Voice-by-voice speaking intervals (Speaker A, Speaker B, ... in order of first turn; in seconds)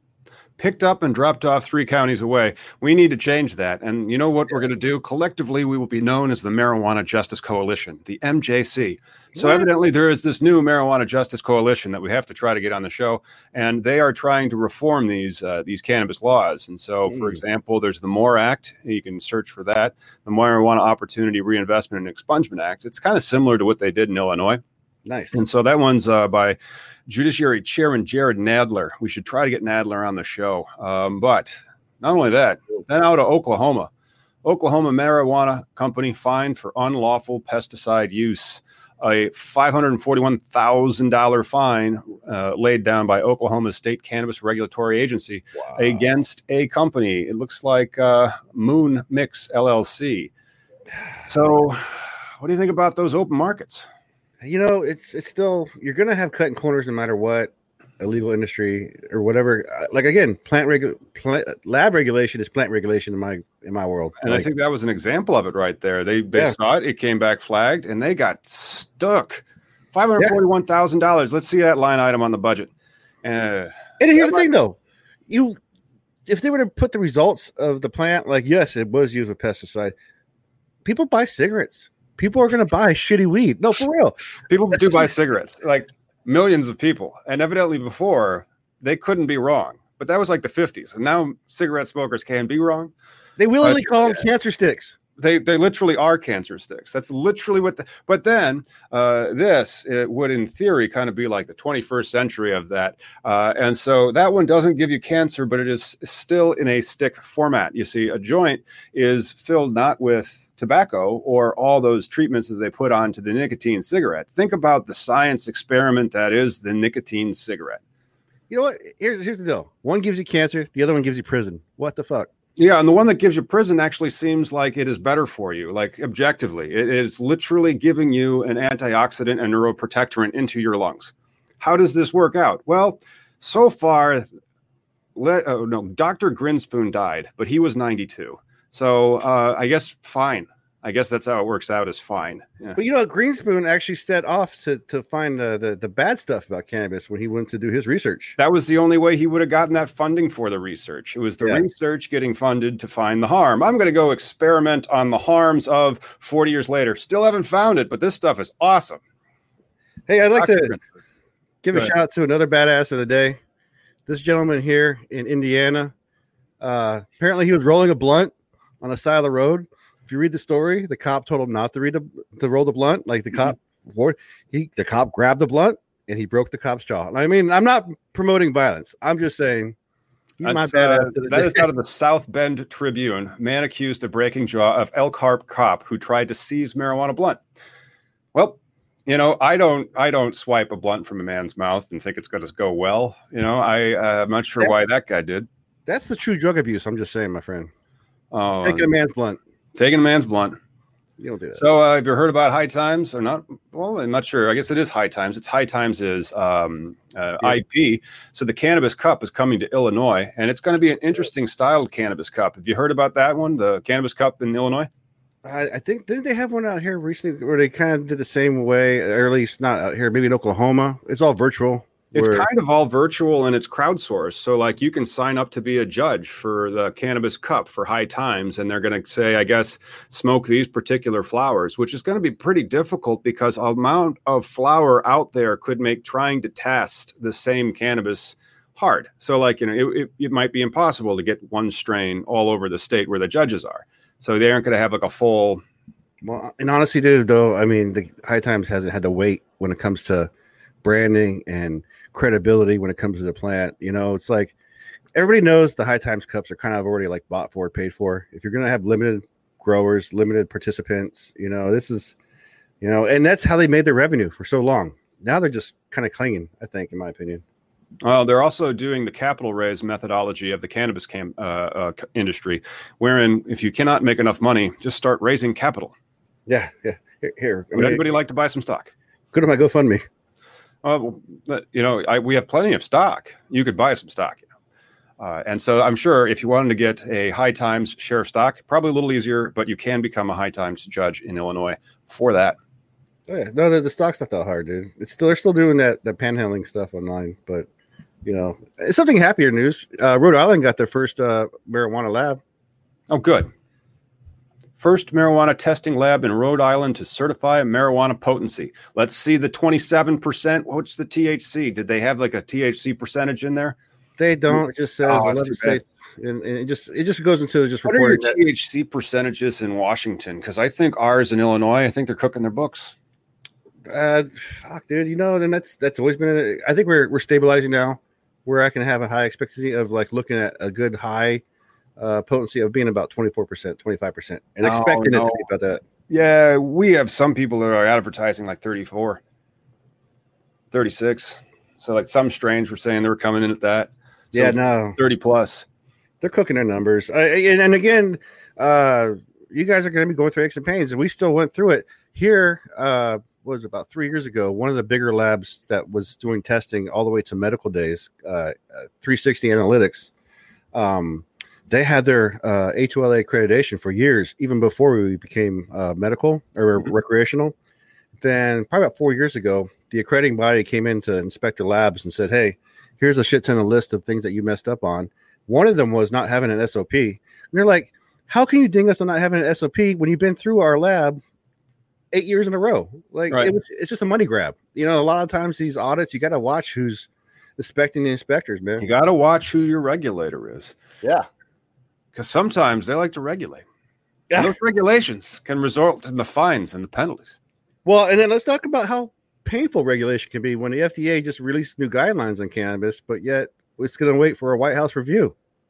Speaker A: 0.6-24.6, 25.3-33.9, 34.4-50.3, 51.2-53.9, 64.2-72.7, 73.2-74.4, 84.5-92.9, 93.6-94.2, 95.2-117.8, 122.6-134.3, 135.2-142.8, 148.4-159.0, 160.3-160.8, 180.4-187.4, 188.3-195.5, 198.3-198.9, 199.8-200.6, 201.6-214.9, 222.1-245.6, 268.0-275.9, 277.7-278.9, 280.8-284.5, 285.2-292.6, 303.1-303.5, 304.8-313.8, 314.5-315.8, 317.9-322.9, 334.6-335.4, 336.1-339.2, 340.7-345.7, 388.8-390.8, 392.1-393.6, 394.4-397.4
Speaker B: 9.3-9.7, 17.1-17.4, 25.1-25.4, 45.7-46.0, 51.1-51.6, 54.4-64.5, 74.0-74.8, 75.3-75.6, 76.3-79.9, 80.8-84.2, 84.7-85.1, 93.4-95.0, 118.5-122.3, 142.8-148.4, 160.1-160.8, 161.6-163.4, 164.1-165.9, 166.6-179.8, 180.4-181.7, 195.9-197.7, 198.6-199.4, 201.2-201.6, 215.4-222.5, 246.2-250.3, 250.8-254.5, 255.2-262.2, 262.8-267.4, 276.5-278.0, 279.3-280.0, 293.3-297.7, 298.2-302.4, 314.2-318.4, 323.9-331.4, 332.0-335.8, 344.3-345.0, 346.2-360.1, 360.7-367.5, 368.2-381.2, 382.1-388.9, 394.3-394.6, 397.9-405.4